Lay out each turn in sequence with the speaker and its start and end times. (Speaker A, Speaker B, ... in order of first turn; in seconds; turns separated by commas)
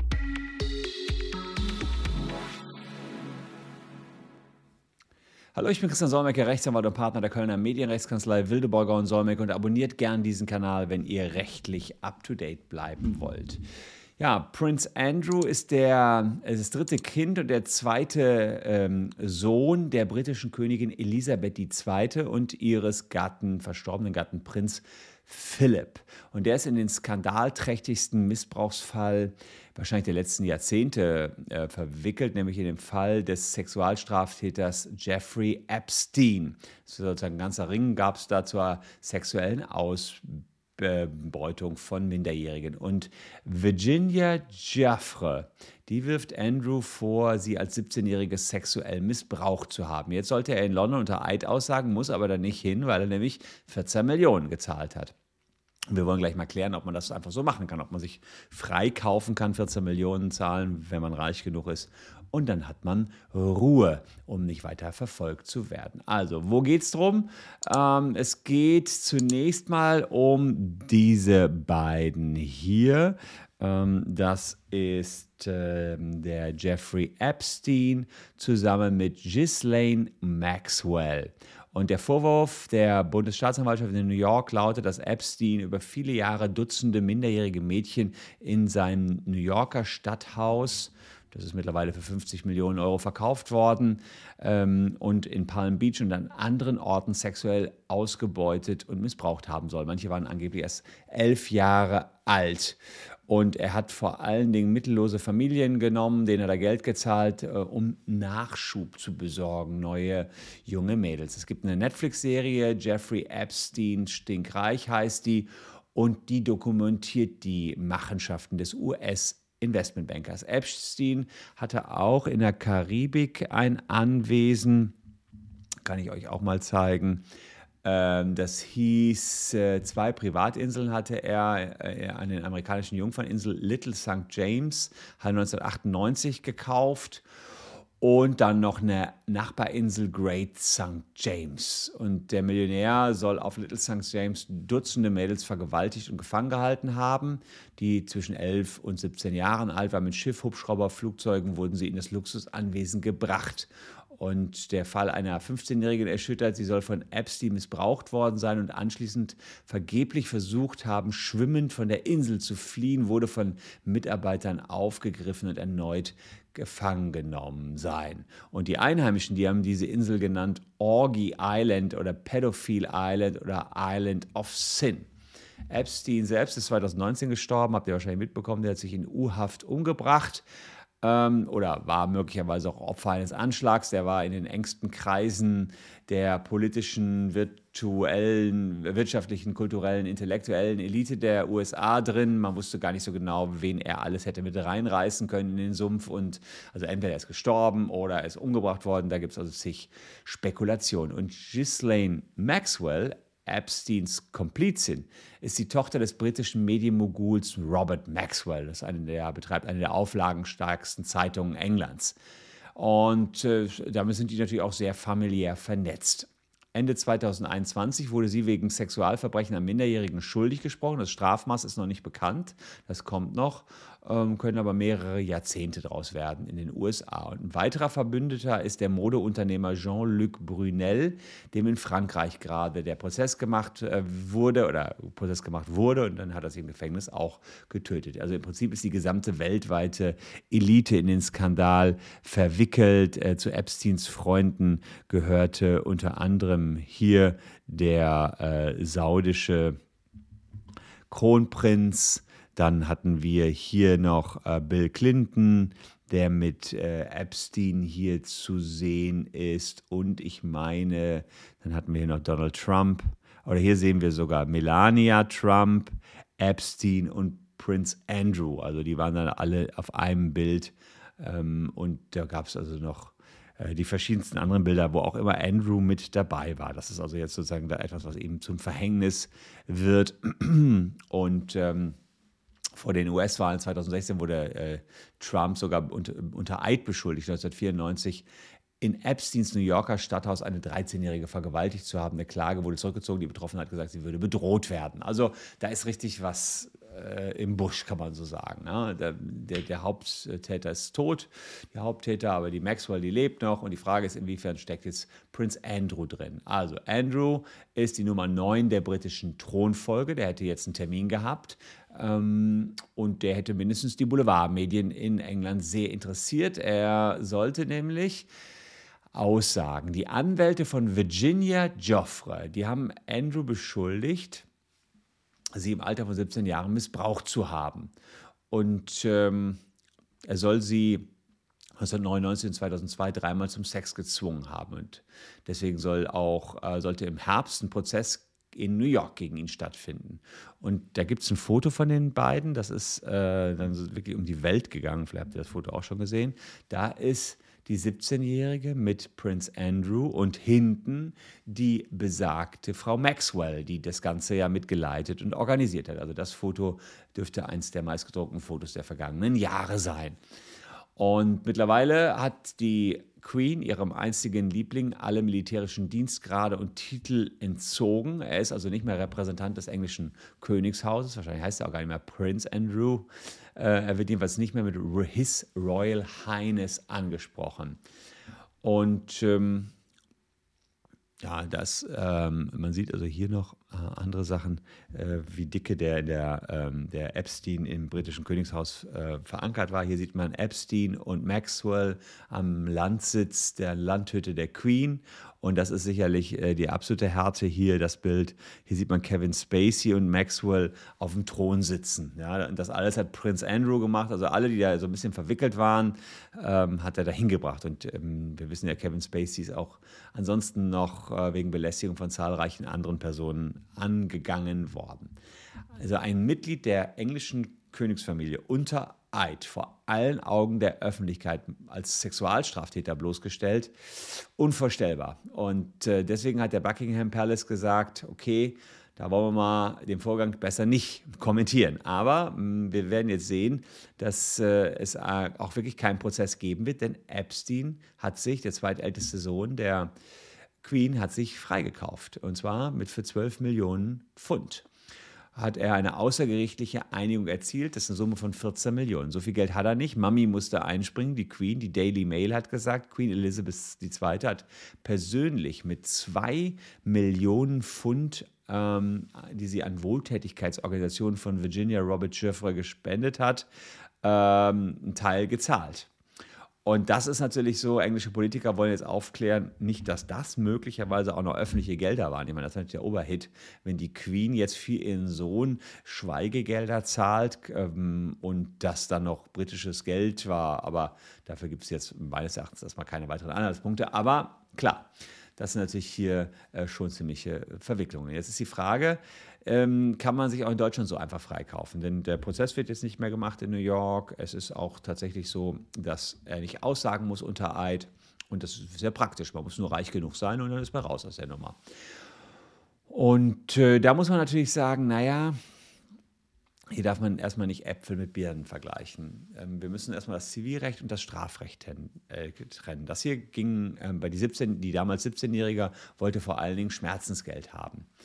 Speaker A: 5.5-13.6, Speaker A: 14.2-55.1, Speaker A: 55.9-125.0, Speaker A: 125.8-127.2, Speaker A: 127.8-137.2, Speaker A: 138.0-175.1, Speaker A: 175.7-180.4, Speaker A: 181.0-212.2, Speaker A: 212.8-249.8, Speaker A: 251.1-282.0, Speaker A: 282.8-288.2, Speaker A: 288.8-318.3, Speaker A: 319.1-324.5, Speaker A: 325.6-327.9, Speaker A: 328.5-329.6, Speaker A: 330.3-331.1, Speaker A: 331.8-360.2, Speaker A: 361.0-377.8, Speaker A: 378.6-379.7, Speaker A: 381.2-415.1, Speaker A: 415.8-439.9, Speaker A: 440.6-444.7, Speaker A: 445.4-463.5, Speaker A: 464.0-465.9, Speaker A: 466.6-501.6, Speaker A: 502.9-505.4, Speaker A: 506.7-517.9